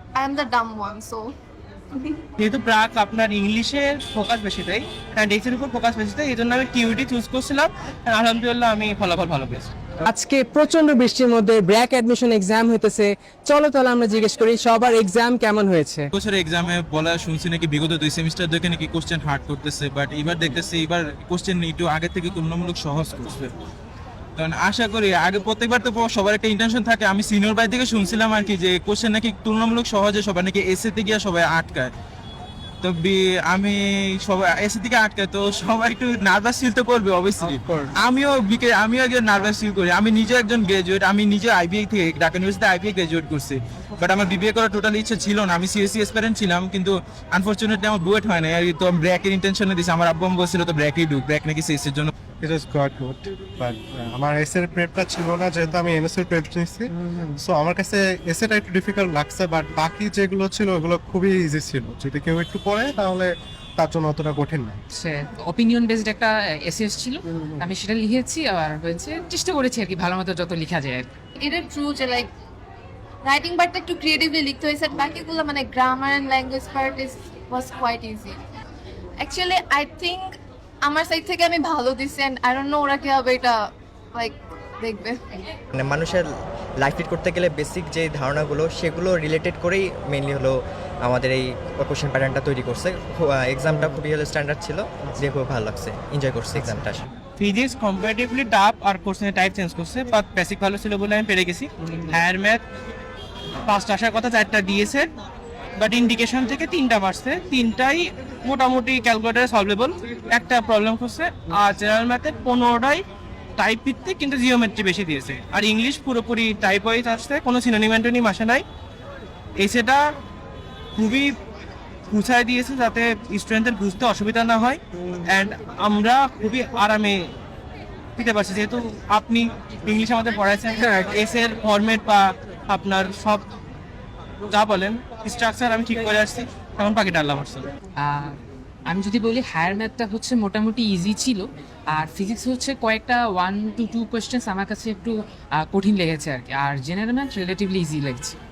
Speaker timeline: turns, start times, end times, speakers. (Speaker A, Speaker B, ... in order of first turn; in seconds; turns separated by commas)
Speaker A: 0.1-1.3, Speaker B: 2.4-9.7, Speaker C: 10.0-16.1, Speaker D: 16.1-23.5, Speaker D: 24.4-31.9, Speaker D: 32.8-52.1, Speaker E: 52.4-64.8, Speaker F: 64.9-71.1, Speaker A: 71.4-72.3, Speaker A: 73.2-78.4, Speaker A: 79.2-80.3, Speaker A: 80.8-85.2, Speaker G: 85.8-86.3, Speaker G: 86.8-97.0, Speaker B: 97.4-102.6, Speaker B: 103.7-105.1, Speaker B: 105.8-113.0, Speaker B: 113.6-118.6, Speaker B: 119.6-120.0, Speaker B: 121.0-121.3, Speaker B: 122.1-127.3, Speaker B: 128.2-133.4, Speaker B: 134.5-137.7, Speaker F: 137.9-148.3